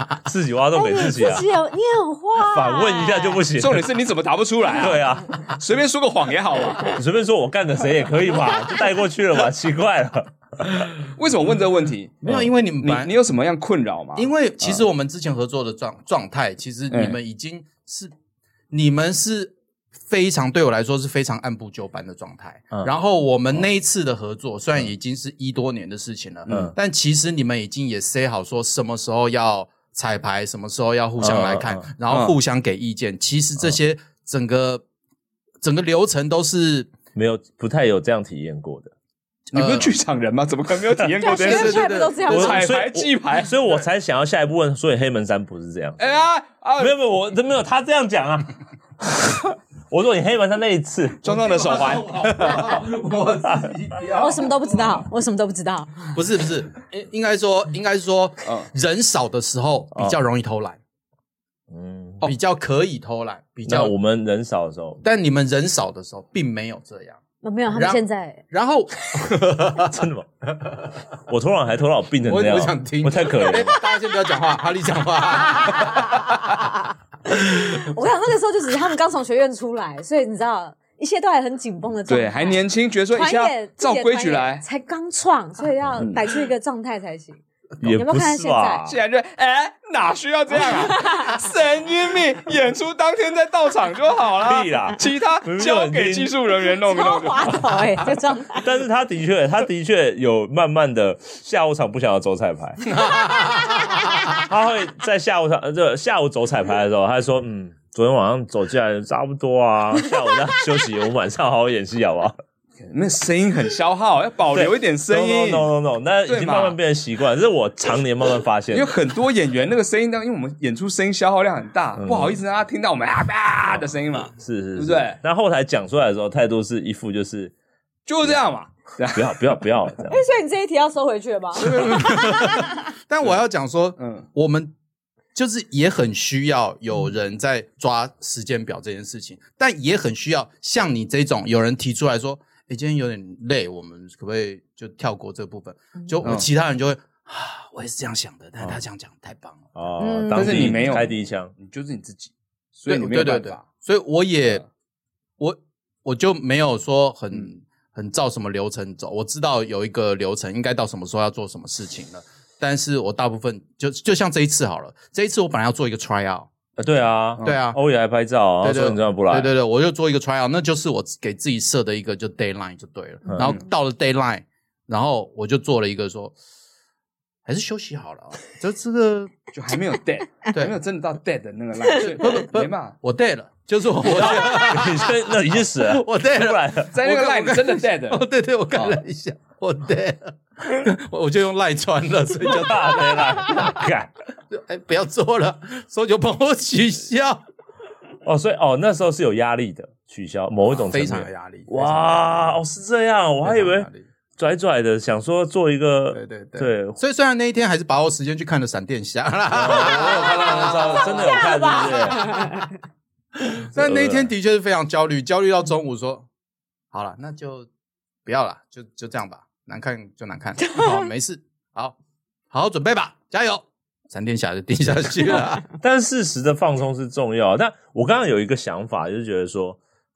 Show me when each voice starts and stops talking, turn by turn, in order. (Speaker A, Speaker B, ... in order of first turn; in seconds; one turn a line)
Speaker A: 0.2-1.5
Speaker B: 0.7-3.4
Speaker A: 2.4-3.9
Speaker C: 3.6-6.9
Speaker A: 4.7-5.5
Speaker A: 6.9-10.9
Speaker C: 11.2-12.2
Speaker D: 12.2-13.1
Speaker C: 12.8-14.8
Speaker D: 14.2-18.1
Speaker C: 16.9-17.2
Speaker D: 18.7-34.8
Speaker A: 26.5-26.7
Speaker A: 31.2-31.9
Speaker C: 32.1-32.4
Speaker D: 35.6-36.9
Speaker A: 37.1-38.9
Speaker D: 39.5-39.9
Speaker C: 39.5-43.5
Speaker B: 41.2-42.6
Speaker D: 41.3-42.4
Speaker A: 42.3-46.2
Speaker C: 46.0-47.0
Speaker A: 46.8-51.4
Speaker C: 51.2-52.7
Speaker D: 51.3-54.6
Speaker A: 53.4-53.8
Speaker B: 54.1-56.1
Speaker D: 56.1-60.8
Speaker C: 58.4-58.7
Speaker A: 61.7-62.3
Speaker D: 62.2-63.9
Speaker A: 63.6-65.0
Speaker D: 65.0-67.2
Speaker B: 67.4-68.4
Speaker D: 67.7-70.0
Speaker A: 69.8-70.2
Speaker D: 70.5-70.9
Speaker A: 71.3-73.8
Speaker D: 72.2-76.6
Speaker B: 77.4-88.8
Speaker C: 82.1-84.6
Speaker A: 87.8-89.0
Speaker C: 88.8-97.8
Speaker B: 90.6-91.4
Speaker A: 94.4-96.3
Speaker B: 96.8-98.7
Speaker A: 98.5-103.0
Speaker D: 103.0-103.7
Speaker B: 103.2-104.4
Speaker A: 104.3-112.4
Speaker C: 112.8-115.7
Speaker A: 114.5-118.9
Speaker C: 116.3-116.8
Speaker C: 118.7-125.2
Speaker A: 122.0-122.4
Speaker A: 123.7-127.5
Speaker C: 128.1-129.5
Speaker A: 129.1-130.2
Speaker B: 130.1-132.7
Speaker C: 131.6-132.5
Speaker D: 131.6-134.7
Speaker C: 134.0-134.2
Speaker D: 135.3-149.7
Speaker A: 149.7-151.5
Speaker B: 150.0-151.1
Speaker C: 150.3-153.6
Speaker D: 152.9-154.6
Speaker D: 155.4-166.5
Speaker A: 166.8-169.5
Speaker D: 167.4-167.8
Speaker D: 168.6-176.3
Speaker A: 173.3-173.6
Speaker D: 177.4-179.3
Speaker C: 179.5-182.9
Speaker D: 180.5-180.8
Speaker D: 181.9-193.8
Speaker A: 184.1-186.9
Speaker C: 186.9-189.0
Speaker A: 192.4-194.1
Speaker D: 194.5-197.4
Speaker A: 198.2-207.0
Speaker D: 200.7-202.6
Speaker D: 203.4-204.1
Speaker D: 206.1-212.5
Speaker A: 209.5-212.5
Speaker B: 211.1-212.7
Speaker D: 213.4-216.3
Speaker A: 213.8-214.3
Speaker D: 216.9-217.7
Speaker D: 218.2-221.9
Speaker D: 222.5-225.7
Speaker A: 225.7-229.8